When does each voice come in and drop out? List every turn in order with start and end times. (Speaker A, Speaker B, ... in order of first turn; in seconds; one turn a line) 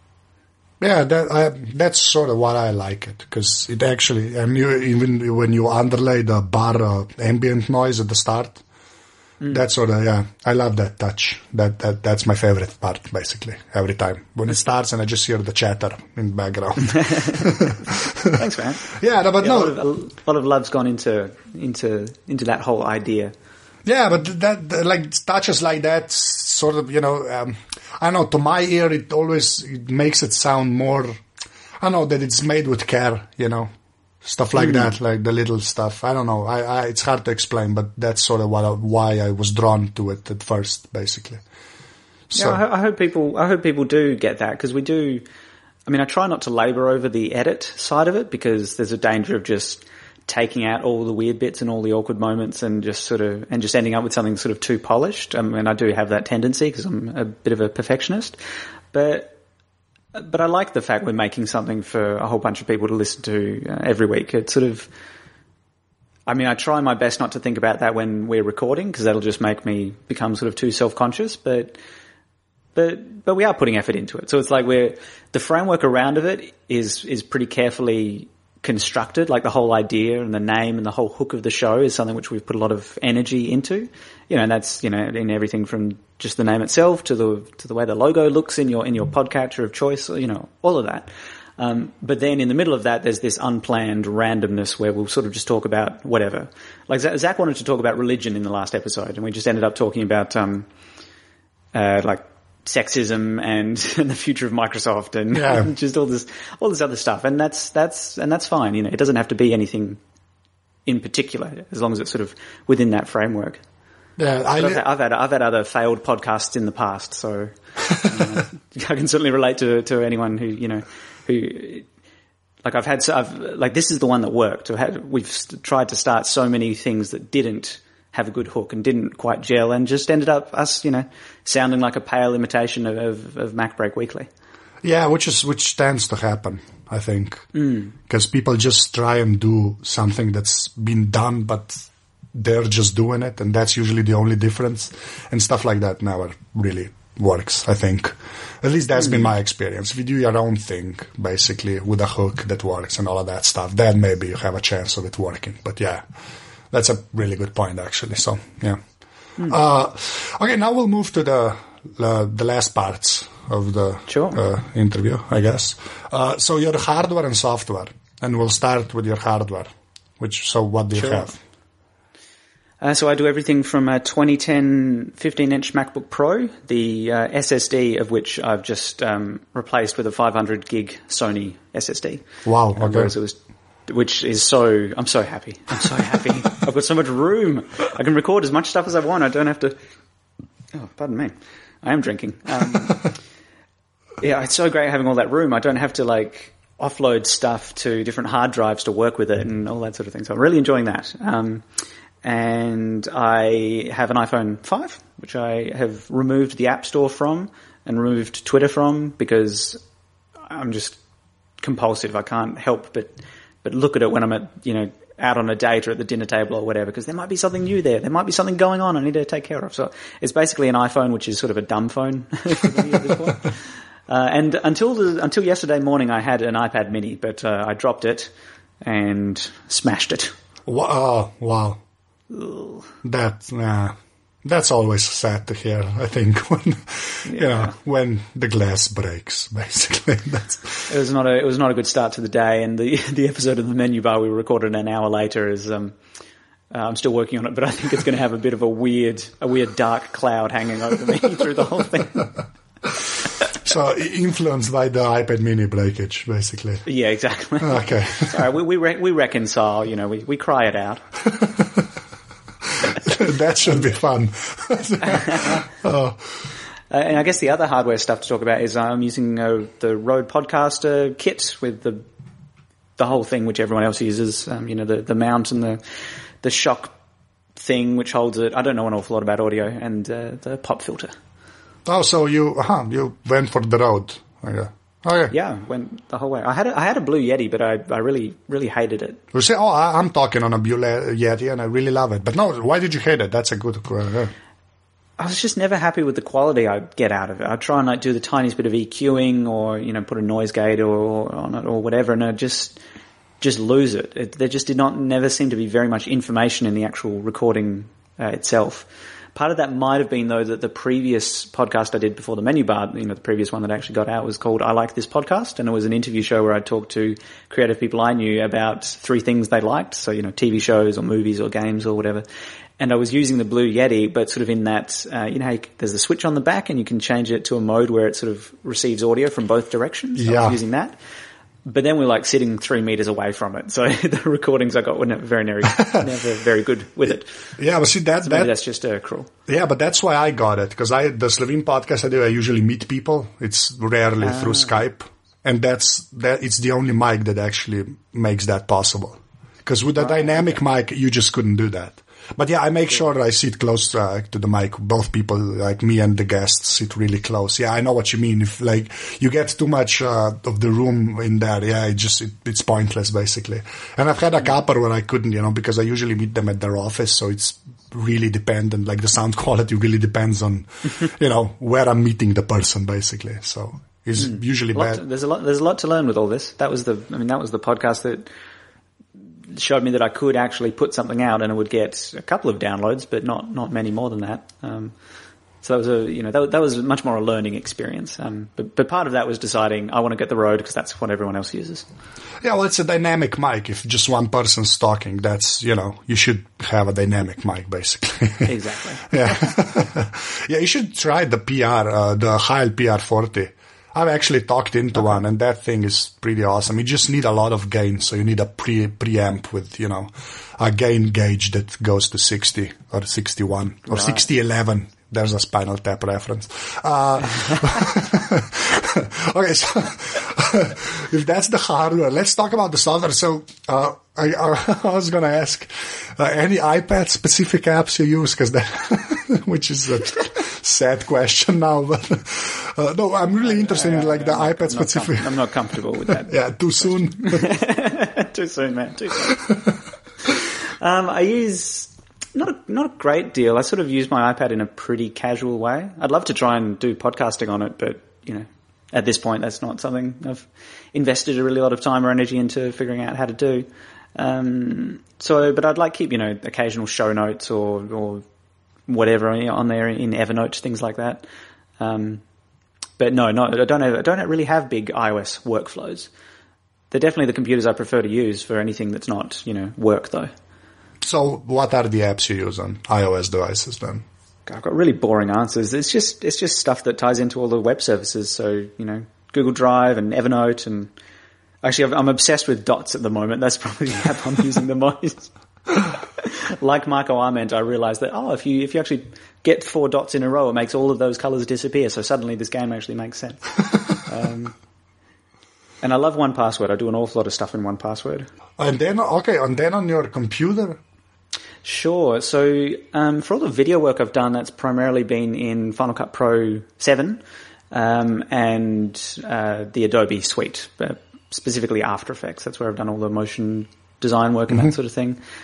Speaker A: 0.8-8.6
Speaker A: 9.5-19.8
Speaker B: 16.8-23.3
Speaker A: 23.9-31.2
Speaker A: 31.8-33.7
Speaker A: 34.2-41.4
Speaker B: 34.6-34.9
Speaker A: 42.3-42.6
Speaker B: 42.4-45.2
Speaker B: 45.9-58.4
Speaker B: 58.9-59.4
Speaker B: 60.1-64.9
Speaker B: 66.3-71.8
Speaker B: 72.8-100.7
Speaker B: 101.7-110.0
Speaker A: 105.3-105.7
Speaker B: 110.9-113.6
Speaker A: 114.2-114.8
Speaker B: 114.5-121.9
Speaker B: 122.7-134.3
Speaker A: 134.8-137.5
Speaker B: 137.6-137.9
Speaker A: 138.1-141.8
Speaker A: 142.3-156.0
Speaker A: 156.7-158.8
Speaker A: 159.4-171.3
Speaker B: 164.1-164.4
Speaker B: 170.9-171.3
Speaker B: 172.8-189.8
Speaker A: 182.4-183.1
Speaker B: 190.7-193.1
Speaker B: 194.2-201.6
Speaker B: 202.2-209.8
Speaker B: 210.5-211.0
Speaker B: 211.6-228.3
Speaker B: 228.8-230.3
Speaker A: 230.7-231.8
Speaker B: 232.3-232.9
Speaker A: 233.0-240.9
Speaker B: 237.2-237.7
Speaker B: 240.9-245.9
Speaker B: 246.7-252.3
Speaker A: 253.6-256.9
Speaker B: 256.9-261.0
Speaker A: 257.6-258.4
Speaker A: 261.3-261.9
Speaker A: 262.7-266.5
Speaker B: 265.0-265.6
Speaker B: 266.9-272.0
Speaker B: 273.0-275.8
Speaker B: 276.4-276.9
Speaker B: 277.6-281.1
Speaker A: 281.9-285.3
Speaker B: 285.3-289.2
Speaker A: 289.3-294.3
Speaker B: 295.2-302.8
Speaker B: 303.4-322.2
Speaker B: 322.8-331.0
Speaker A: 330.2-330.6
Speaker B: 331.6-337.3
Speaker A: 335.6-336.1
Speaker A: 337.6-338.6
Speaker B: 338.2-339.3
Speaker A: 339.5-375.0
Speaker B: 344.2-344.8
Speaker B: 374.2-378.3
Speaker B: 379.5-384.9
Speaker B: 385.6-391.9
Speaker A: 392.4-435.3
Speaker B: 398.5-399.1
Speaker B: 413.9-414.2
Speaker B: 433.4-436.3
Speaker A: 436.1-437.6
Speaker B: 437.3-439.5
Speaker A: 439.3-439.8
Speaker B: 440.3-458.2
Speaker B: 458.9-461.2
Speaker B: 461.8-462.2
Speaker B: 463.0-466.1
Speaker B: 466.9-470.3
Speaker A: 471.0-474.1
Speaker B: 474.5-480.9
Speaker B: 481.6-494.6
Speaker B: 495.8-498.3
Speaker A: 498.6-500.8
Speaker B: 501.6-515.2